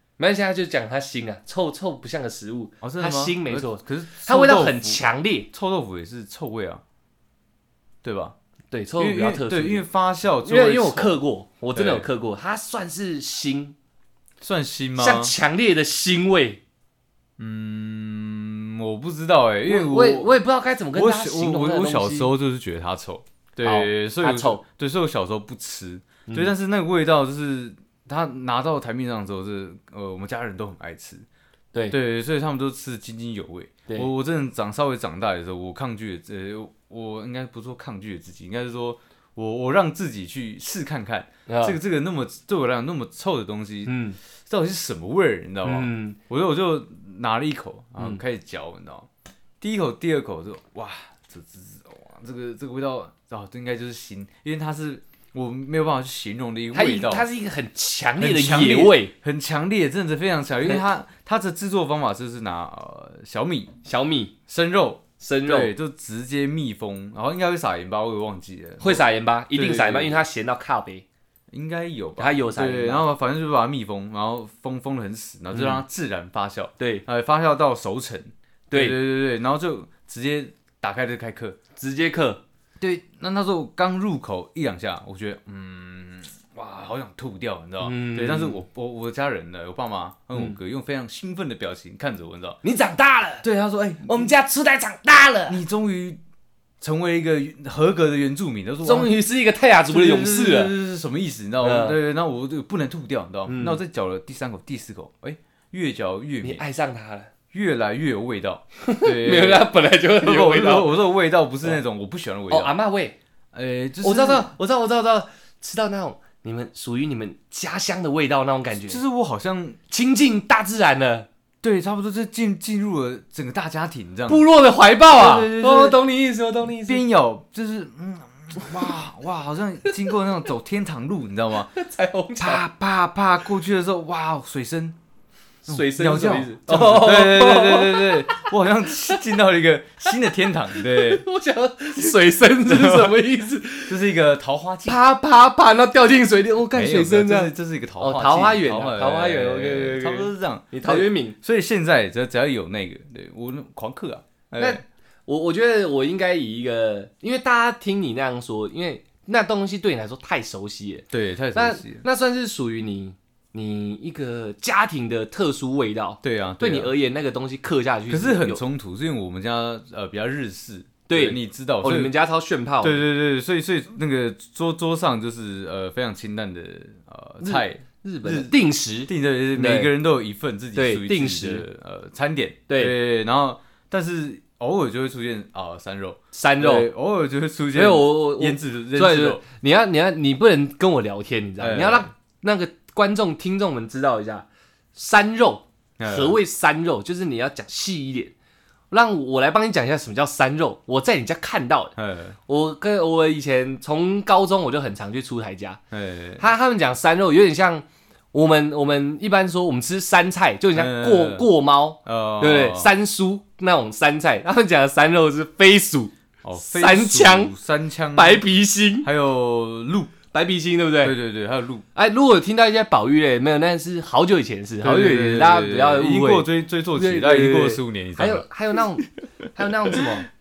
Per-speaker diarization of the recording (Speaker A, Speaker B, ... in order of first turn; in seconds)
Speaker A: 0.2-5.5, 8.7-9.9, 10.4-13.8, 15.0-16.6, 19.7-22.3, 23.6-24.6, 41.5-41.8, 43.9-44.2, 45.6-46.2, 56.7-59.1, 63.8-64.3, 65.2-65.7, 68.8-71.0, 72.2-73.0, 75.5-75.8, 76.8-77.0, 78.7-79.0, 81.8-82.4, 87.8-88.6, 92.6-93.5, 94.0-95.6, 98.8-100.7, 101.6-102.0, 103.5-103.8, 106.4-107.3, 108.8-111.0, 112.5-113.2, 114.0-119.0, 119.9-121.3, 124.3-127.0, 131.7-132.7, 135.7-139.2, 140.7-144.0, 144.9-151.4, 154.6-168.6, 171.1-173.0, 177.4-179.9, 180.8-181.7, 182.7-182.9, 186.3-186.9, 187.7-198.3, 198.9-201.9, 202.5-205.8, 206.4-217.5, 218.2-219.1, 220.3-221.2, 221.9-230.3
Speaker B: 2.8-6.8, 8.0-8.3, 9.0-11.2, 11.7-12.1, 14.4-15.3, 17.4-20.4, 20.9-31.3, 31.9-49.1, 49.6-57.3, 58.2-63.7, 64.5-70.2, 71.5-81.6, 82.8-92.6, 93.4-94.3, 95.5-96.2, 96.8-99.1, 99.9-106.6, 107.5-112.7, 113.5-114.5, 118.7-119.8, 121.6-124.4, 125.1-126.0, 126.8-131.7, 132.4-135.0, 135.7-141.2, 142.0-143.2, 143.9-145.0, 146.7-154.8, 161.1-162.0, 166.2-166.9, 168.1-172.1, 172.8-178.5, 179.1-189.4, 191.6-192.1, 196.0-196.4, 202.0-202.4, 205.9-206.4, 210.8-211.5, 212.1-212.9, 216.4-218.4, 219.0-220.2, 221.0-221.8, 224.8-228.4, 229.9-230.1